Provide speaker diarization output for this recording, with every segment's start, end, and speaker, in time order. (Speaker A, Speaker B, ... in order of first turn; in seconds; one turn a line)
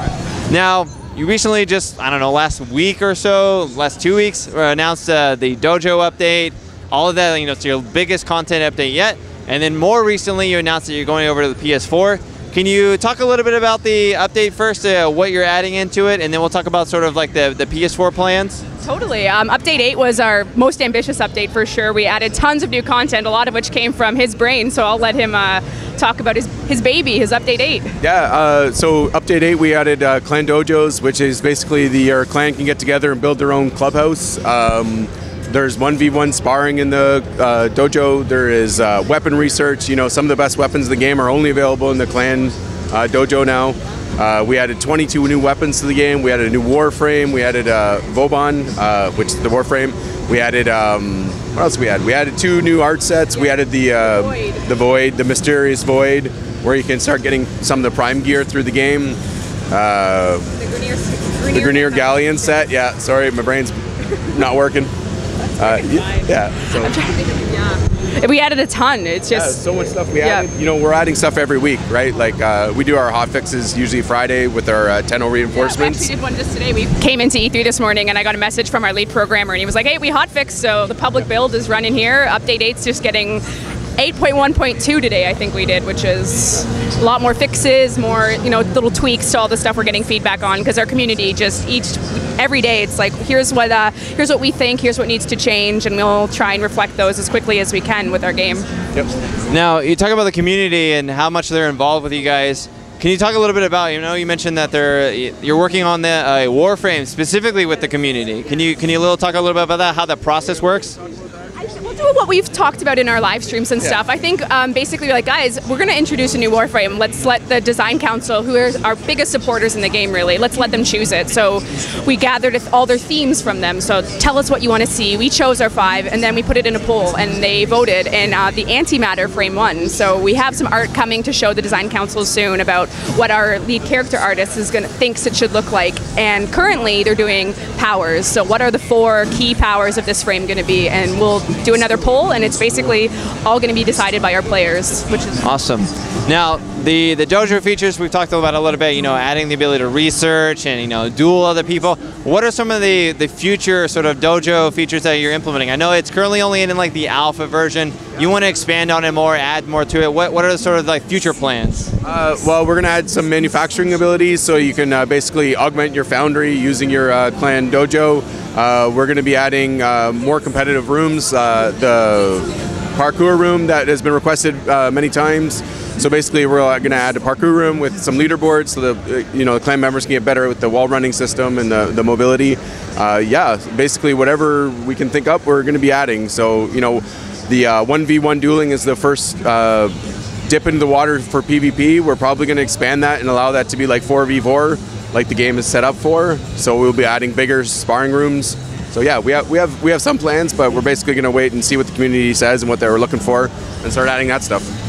Speaker A: 0.5-18.6
Speaker B: 18.8-27.9
Speaker C: 28.0-59.2
Speaker B: 53.3-54.6
Speaker C: 59.7-60.5
Speaker B: 60.6-62.6
Speaker C: 61.5-63.8
Speaker C: 64.3-64.9
Speaker C: 65.6-67.0
Speaker B: 65.6-69.6
Speaker C: 69.3-76.1
Speaker B: 70.2-70.5
Speaker B: 75.5-83.4
Speaker B: 84.0-98.7
Speaker A: 99.5-111.0
Speaker B: 111.6-145.4
Speaker A: 145.4-161.9
Speaker C: 162.0-189.9
Speaker C: 190.5-204.7